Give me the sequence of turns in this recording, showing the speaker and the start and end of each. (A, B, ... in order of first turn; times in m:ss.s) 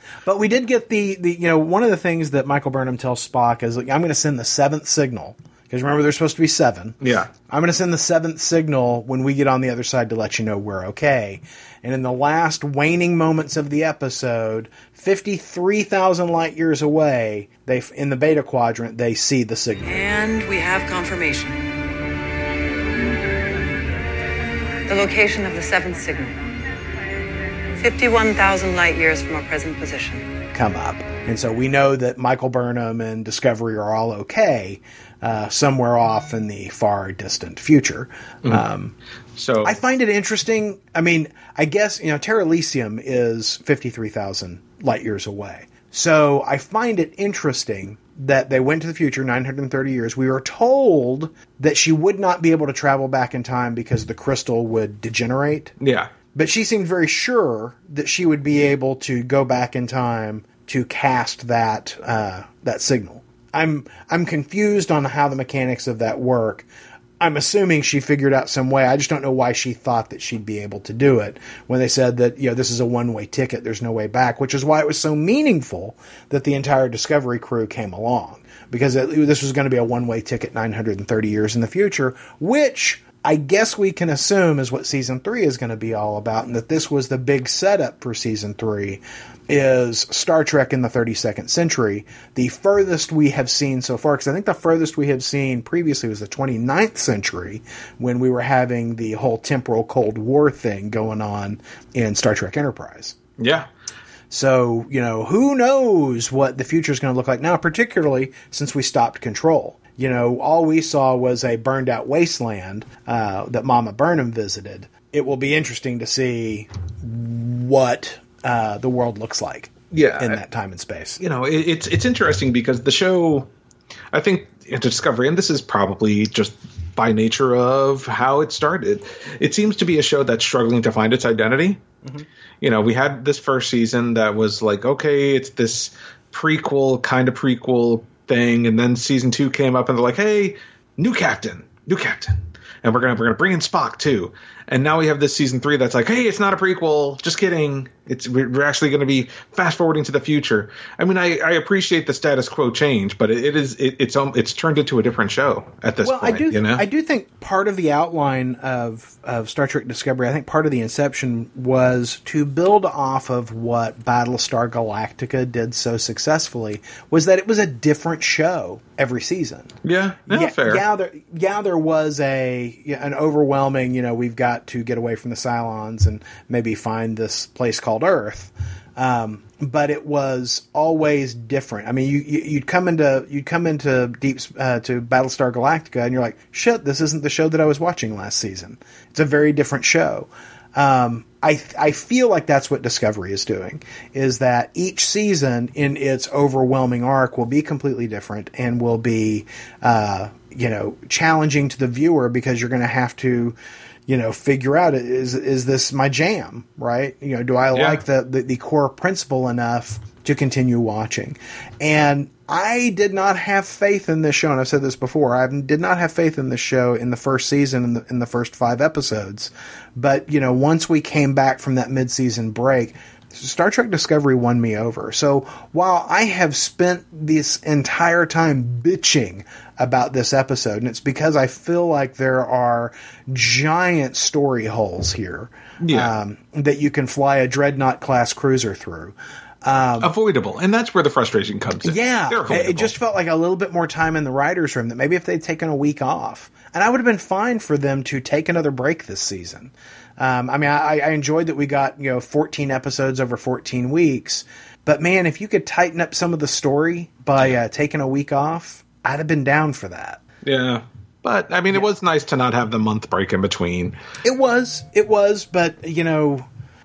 0:00.2-0:20.0 A
0:07.0-0:07.3 B
0:19.9-0:21.6 C
0:24.9-0:26.4 C
0:27.8-0:30.3 C
0:30.5-0:39.0 A
0:39.4-0:39.8 B
0:39.6-0:55.7 A
0:55.8-0:56.1 B
0:56.3-1:06.7 A
1:07.2-1:43.2 A
1:43.4-1:43.7 B
1:44.3-2:01.2 A
1:59.9-2:00.4 B
2:01.2-2:03.5 B
2:04.1-2:11.8 B
2:12.6-2:36.8 B
2:36.0-2:49.8 A
2:49.8-2:50.8 B
2:50.3-3:23.6 A
3:24.1-4:00.1 A
3:27.7-3:28.0 B
3:55.8-3:56.2 B
4:00.0-4:02.9 B
4:01.8-4:20.2 A
4:20.4-4:24.0 B
4:24.2-4:26.5 A